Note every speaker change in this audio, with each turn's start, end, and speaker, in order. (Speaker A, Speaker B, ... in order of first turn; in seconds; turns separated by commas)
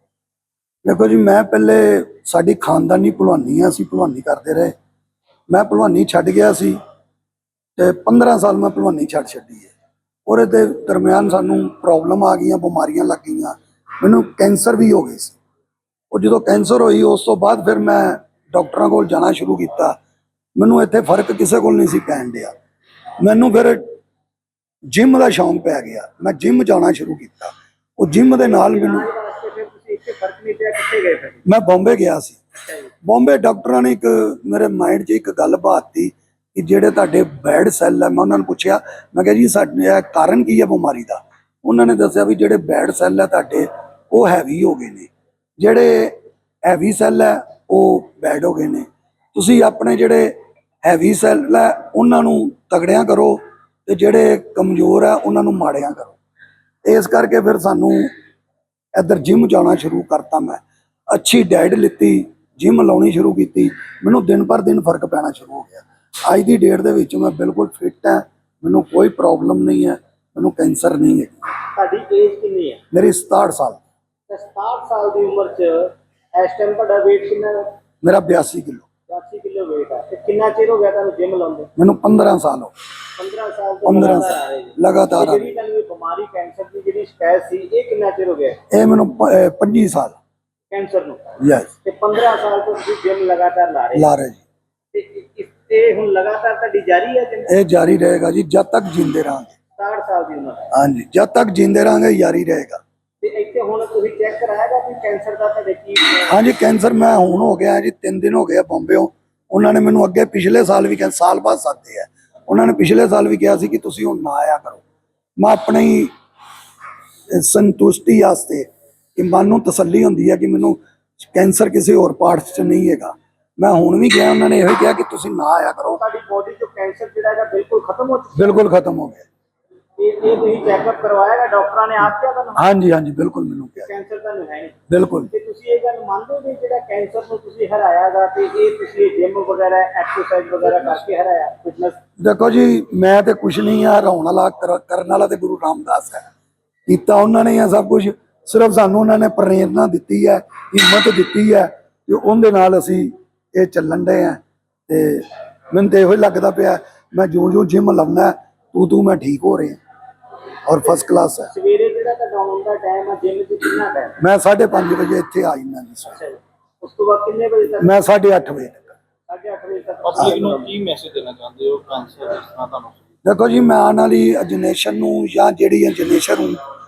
Speaker A: 0.8-4.7, Speaker A: 5.5-6.8, Speaker A: 7.8-9.7, Speaker A: 10.3-15.4, Speaker A: 16.1-19.9, Speaker A: 20.6-22.5, Speaker A: 23.2-23.8, Speaker A: 24.9-29.1, Speaker B: 28.4-31.4, Speaker A: 31.4-32.4, Speaker A: 33.0-56.2, Speaker A: 56.8-58.1, Speaker A: 58.9-71.4, Speaker B: 71.7-72.8, Speaker A: 72.9-73.8, Speaker B: 74.3-77.7, Speaker A: 78.0-78.8, Speaker B: 79.1-81.7, Speaker A: 81.8-82.7, Speaker B: 83.2-88.6, Speaker A: 83.8-85.5, Speaker A: 88.7-90.2, Speaker B: 90.7-91.3, Speaker A: 91.4-91.7, Speaker B: 91.8-94.0, Speaker A: 93.9-94.4, Speaker B: 94.9-97.5, Speaker A: 97.5-99.5, Speaker B: 99.8-100.7, Speaker A: 100.7-102.8, Speaker B: 103.2-106.3, Speaker A: 106.3-114.8, Speaker A: 115.4-116.1, Speaker A: 117.3-126.0, Speaker B: 126.0-128.6, Speaker A: 128.3-129.2, Speaker B: 130.0-132.7, Speaker A: 132.6-133.9, Speaker B: 133.8-134.8, Speaker A: 134.9-135.3, Speaker B: 135.3-142.0, Speaker A: 142.2-146.2, Speaker A: 146.9-159.8, Speaker A: 160.7-161.5, Speaker B: 161.5-164.1, Speaker A: 164.2-166.2, Speaker B: 166.1-167.9, Speaker A: 167.8-168.9, Speaker B: 169.3-170.7, Speaker C: 170.0-173.0, Speaker A: 173.2-176.6